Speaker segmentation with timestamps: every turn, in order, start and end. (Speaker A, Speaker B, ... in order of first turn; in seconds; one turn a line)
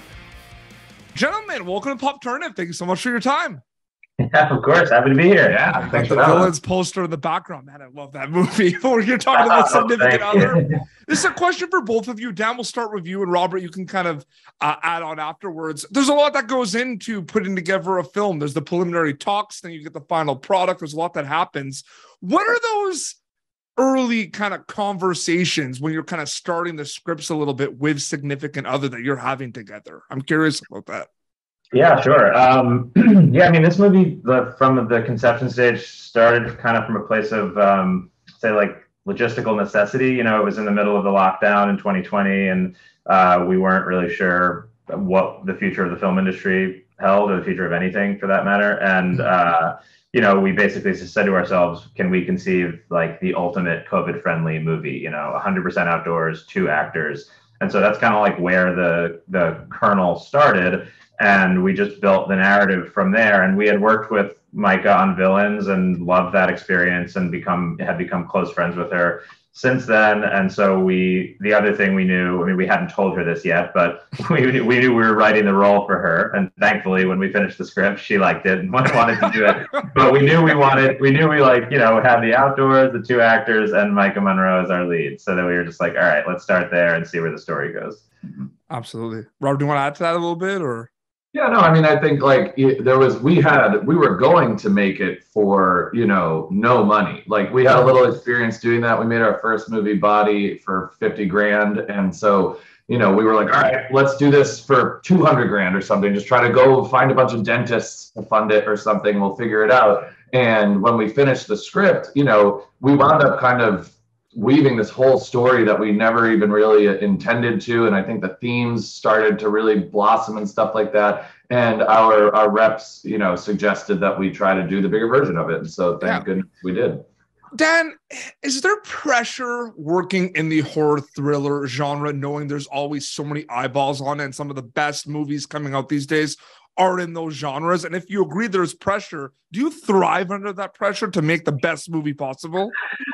Speaker A: 1.1-3.6
Speaker B: 4.2-6.4
Speaker C: 5.4-6.5
Speaker A: 5.7-23.2
Speaker B: 9.3-10.6
Speaker A: 23.8-31.1
Speaker B: 31.7-88.0
Speaker A: 79.2-79.5
Speaker A: 88.7-90.9
Speaker C: 91.3-127.0
Speaker A: 127.5-142.7